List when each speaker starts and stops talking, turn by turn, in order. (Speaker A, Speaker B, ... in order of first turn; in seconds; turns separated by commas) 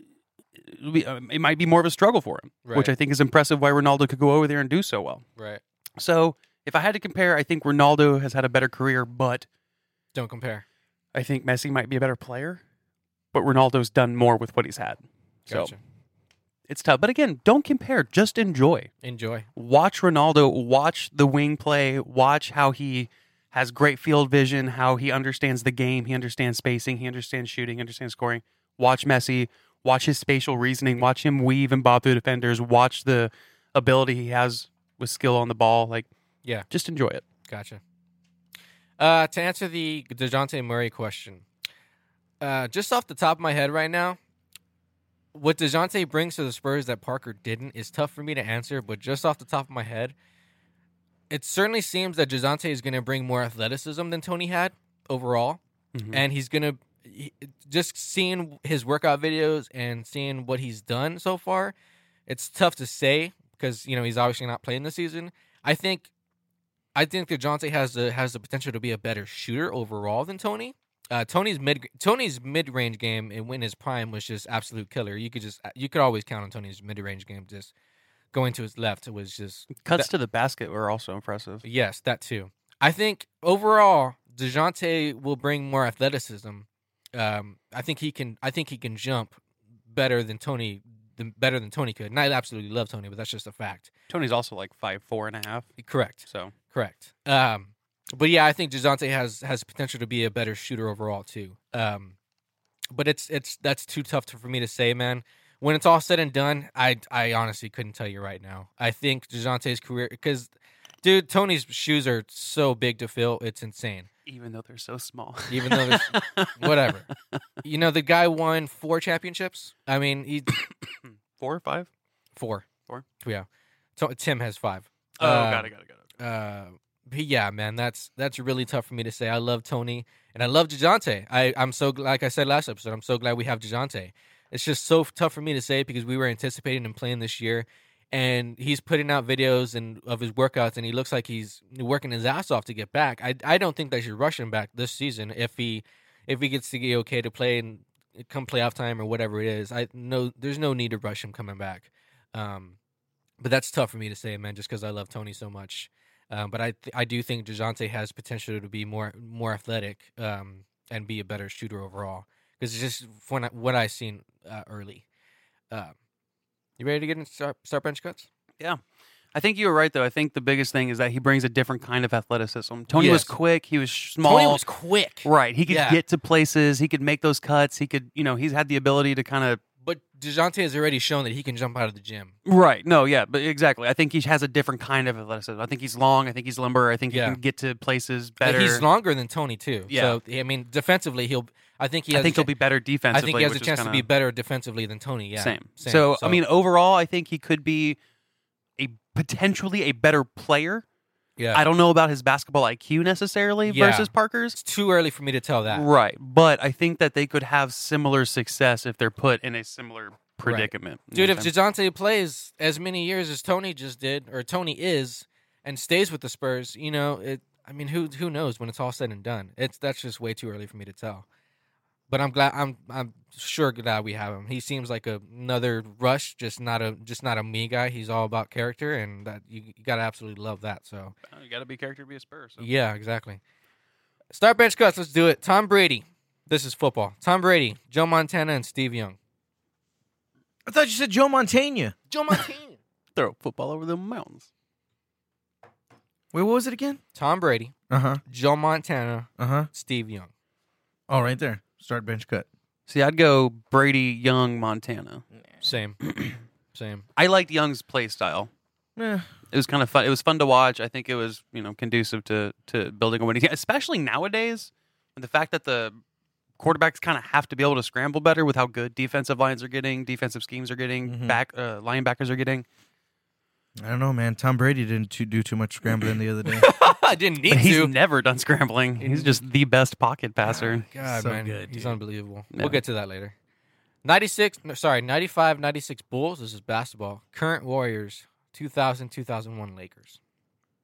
Speaker A: 0.6-5.2, Speaker B: 2.6-2.9, Speaker A: 6.0-9.5, Speaker B: 10.2-10.7, Speaker A: 11.1-12.6, Speaker A: 13.3-15.7, Speaker B: 15.5-15.8, Speaker A: 16.7-18.9, Speaker B: 19.0-19.5, Speaker A: 19.6-36.1, Speaker A: 36.7-37.3, Speaker B: 37.5-37.8, Speaker B: 39.0-41.5, Speaker B: 42.4-44.2, Speaker B: 45.3-50.1, Speaker B: 51.3-55.6, Speaker A: 55.9-56.2, Speaker B: 56.1-61.8, Speaker B: 62.3-66.1, Speaker B: 67.0-77.7, Speaker B: 78.3-80.1, Speaker A: 79.8-81.6, Speaker B: 81.6-89.4, Speaker B: 89.9-93.9, Speaker A: 94.1-95.7, Speaker B: 95.8-102.2, Speaker A: 96.2-96.5, Speaker B: 102.9-110.5, Speaker B: 111.0-114.1, Speaker A: 114.3-116.9, Speaker B: 115.5-117.1, Speaker B: 117.6-120.6, Speaker A: 121.3-121.9, Speaker B: 122.4-122.7, Speaker B: 124.0-152.8, Speaker A: 125.2-126.0, Speaker B: 153.4-165.0, Speaker B: 166.8-168.3, Speaker A: 169.3-174.6, Speaker B: 172.9-173.3, Speaker B: 174.2-176.0, Speaker A: 175.2-179.6, Speaker B: 179.8-182.3, Speaker A: 182.4-188.8, Speaker B: 187.1-187.4, Speaker B: 188.4-192.5, Speaker A: 189.9-190.2, Speaker A: 192.1-194.1, Speaker B: 193.1-196.4, Speaker A: 195.4-198.0, Speaker A: 198.8-200.8, Speaker B: 201.4-201.6, Speaker A: 201.5-204.6, Speaker B: 203.7-205.9, Speaker A: 205.7-211.5, Speaker B: 210.4-221.2, Speaker B: 222.1-231.2, Speaker A: 231.3-232.7, Speaker B: 232.6-233.4, Speaker B: 234.3-239.2, Speaker C: 240.7-241.9, Speaker B: 242.1-242.8, Speaker A: 243.2-244.5, Speaker C: 246.3-247.0, Speaker B: 247.2-247.7, Speaker C: 247.9-248.2, Speaker B: 248.3-250.3, Speaker C: 249.4-249.7, Speaker C: 251.1-252.5, Speaker A: 252.9-255.2, Speaker B: 255.6-256.0, Speaker A: 256.1-256.3, Speaker B: 256.7-257.1, Speaker A: 257.2-258.5, Speaker C: 259.0-259.3, Speaker A: 259.5-266.0, Speaker A: 266.6-272.7, Speaker C: 271.1-271.4, Speaker C: 273.8-276.7, Speaker B: 276.4-277.9, Speaker A: 277.5-280.9, Speaker B: 279.0-279.4, Speaker C: 280.5-282.0, Speaker B: 280.9-283.3, Speaker A: 282.5-282.8, Speaker B: 284.0-290.2